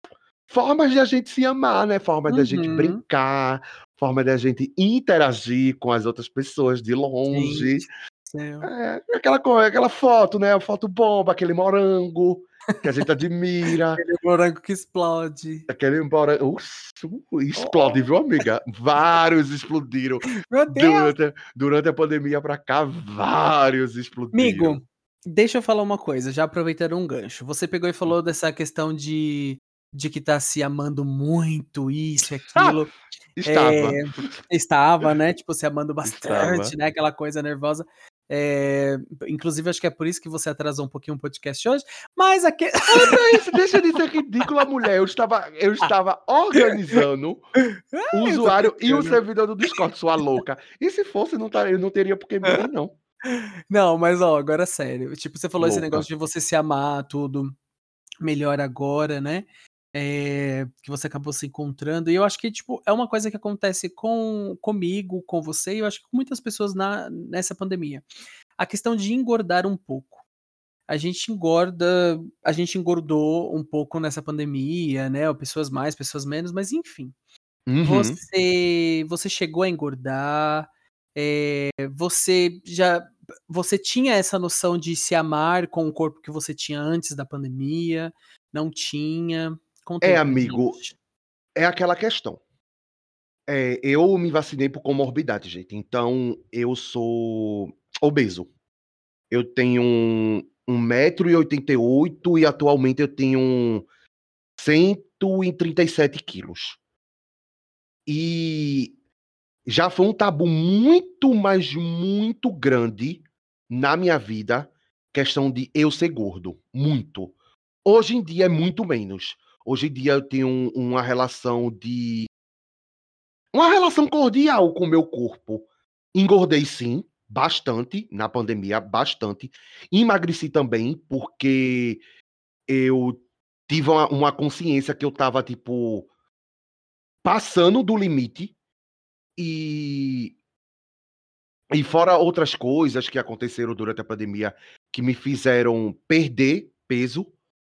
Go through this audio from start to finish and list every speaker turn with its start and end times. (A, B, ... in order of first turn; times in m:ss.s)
0:00.5-0:07.9 A
0:02.3-0:03.0 B
0:07.3-0:08.7 B
0:08.6-0:14.0 A
0:14.0-0:15.7 B
0:15.7-0:24.8 A
0:17.6-0:18.1 B
0:20.5-0:21.1 B
0:24.3-0:32.9 B
0:33.4-0:34.2 A
0:33.5-0:43.6 B
0:36.0-0:36.8 A
0:42.9-0:47.5 A
0:46.6-0:47.0 B
0:47.6-0:49.2 B
0:48.1-0:52.9 A
0:53.3-0:57.5 B
0:55.6-0:56.1 A
0:58.2-1:08.0 B
1:08.6-1:10.2 B
1:10.9-1:17.2 B
1:17.7-1:18.2 A
1:17.8-1:31.0 B
1:30.0-1:30.8 A
1:31.6-1:32.4 A
1:33.5-1:38.5 A
1:39.3-1:43.9 A
1:44.6-1:46.8 A
1:48.1-1:49.0 A
1:49.7-1:57.3 A
1:57.8-2:02.3 A
2:03.5-2:12.0 A
2:12.7-2:16.1 A
2:17.2-2:18.5 A
2:19.4-2:20.4 A
2:21.7-2:27.3 A